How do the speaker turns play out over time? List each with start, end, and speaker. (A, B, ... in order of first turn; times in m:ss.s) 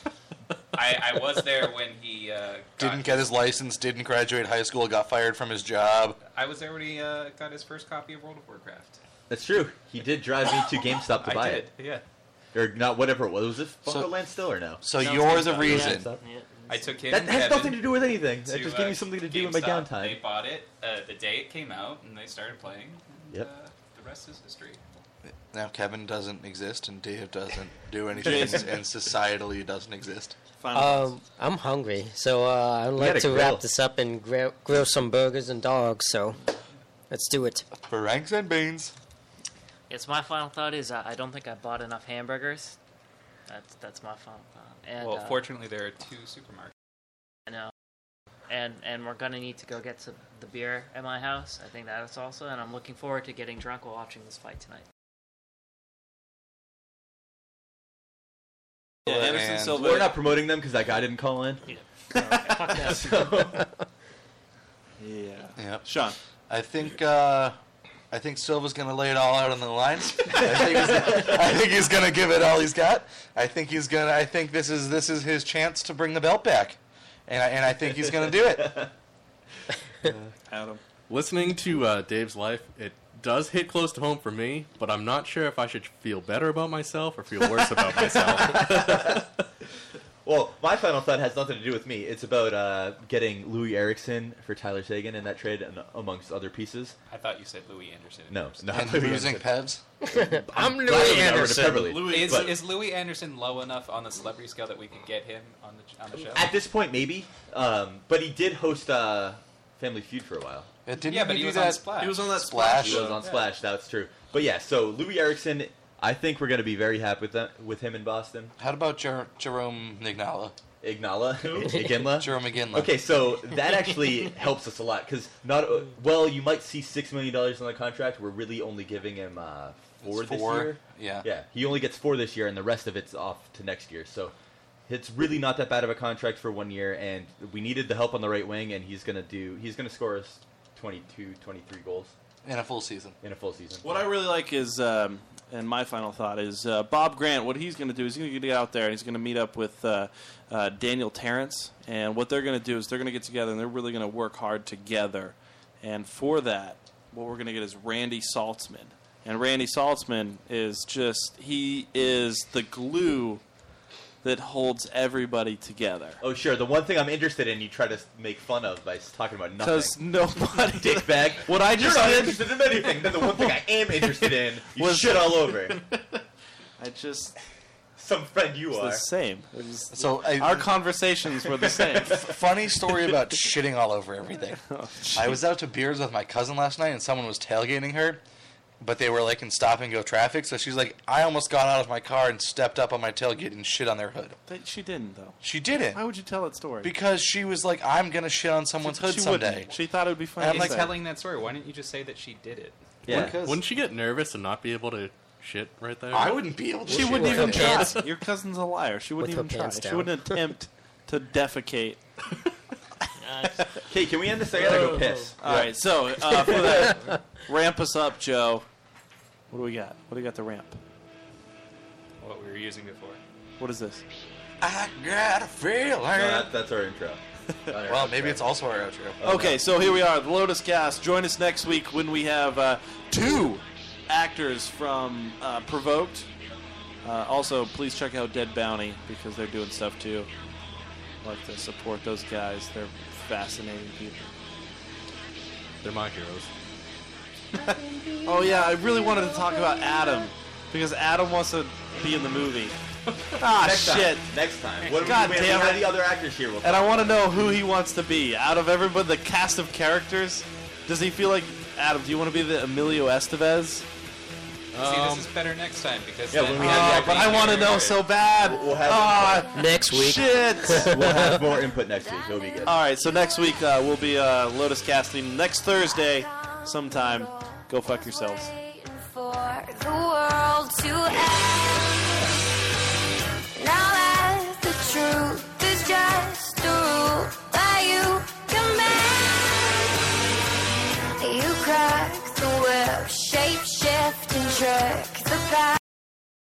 0:00.7-0:03.4 A
0:02.8-0:06.2 B
0:06.3-0:09.0 A
0:09.3-0:11.7 C
0:11.1-0:12.0 A
0:12.5-0:14.8 C
0:14.8-0:16.1 B
0:15.0-0:15.9 A
0:15.4-0:16.2 C
0:15.6-0:17.0 D
0:16.7-0:24.8 A
0:17.1-0:20.2 C
0:25.5-0:30.4 B
0:28.1-0:28.8 E
0:30.6-0:31.2 E
0:30.7-0:36.5 F
0:33.0-0:33.6 C
0:37.1-0:37.7 F
0:37.8-0:38.9 B
0:39.9-0:42.8 D
0:43.5-0:45.4 D
0:45.0-0:46.7 A
0:48.5-0:54.8 D
0:59.0-1:00.2 E
0:59.0-1:00.0 B
0:59.7-1:03.7 C
1:01.7-1:03.1 E
1:02.5-1:03.1 D
1:05.0-1:06.2 E
1:05.6-1:05.9 B
1:06.5-1:07.6 B
1:08.1-1:18.8 B
1:10.4-1:11.4 C
1:18.6-1:18.9 C
1:20.5-1:20.8 E
1:21.1-1:29.1 G
1:28.0-1:29.2 C
1:30.2-1:37.0 C
1:37.1-1:38.6 A
1:38.3-1:39.5 C
1:38.7-1:39.8 B
1:40.0-1:41.9 F
1:40.2-1:42.5 C
1:40.8-1:42.6 E
1:42.0-1:46.5 A
1:46.3-1:50.7 C
1:50.8-1:53.2 B
1:51.0-1:52.3 A
1:51.9-1:53.4 E
1:52.8-1:58.5 C
1:58.6-2:00.6 B
2:00.8-2:14.3 C
2:01.8-2:02.9 B
2:10.0-2:11.3 B
2:14.9-2:22.1 C
2:22.4-2:23.2 B
2:23.2-2:24.0 C
2:23.8-2:43.4 E
2:44.2-2:46.2 E
2:46.2-2:50.0 C
2:49.6-2:55.8 E
2:50.8-2:55.8 C
2:56.8-2:57.3 E
2:58.0-2:59.0 C
2:58.7-3:02.4 E
2:59.9-3:00.7 B
3:01.9-3:04.6 B
3:04.6-3:05.4 E
3:05.1-3:08.2 B
3:08.8-3:14.4 B
3:14.5-3:16.9 E
3:15.4-3:16.0 B
3:16.8-3:19.8 B
3:18.8-3:21.0 E
3:20.4-3:22.8 A
3:23.0-3:23.4 C
3:23.0-3:26.6 G
3:23.1-3:23.7 B
3:26.1-3:27.9 B
3:26.8-3:32.0 E
3:26.9-3:28.1 F
3:29.2-3:30.4 F
3:33.2-3:33.5 D
3:33.8-3:35.4 C
3:34.6-3:38.7 E
3:36.3-3:37.0 F
3:36.5-3:36.9 C
3:39.5-3:40.8 E
3:42.2-3:43.2 A
3:43.6-3:44.0 E
3:44.6-3:46.5 B
3:46.1-3:48.5 C
3:47.8-3:49.5 B
3:49.2-3:49.6 C
3:49.2-3:56.3 E
3:57.0-4:00.3 E
4:01.2-4:04.3 E
4:05.8-4:06.5 G
4:07.6-4:12.8 E
4:07.7-4:10.3 H
4:13.4-4:14.3 E
4:13.4-4:17.4 C
4:15.0-4:15.9 E
4:16.6-4:23.9 E
4:24.7-4:25.3 G
4:24.8-4:28.1 A
4:26.3-4:27.5 C
4:26.6-4:31.0 E
4:28.4-4:29.5 C
4:28.5-4:34.0 H
4:29.5-4:31.5 F
4:30.7-4:32.8 C
4:32.6-4:38.5 E
4:35.6-4:42.4 H
4:43.6-4:50.0 H
4:51.2-4:55.8 H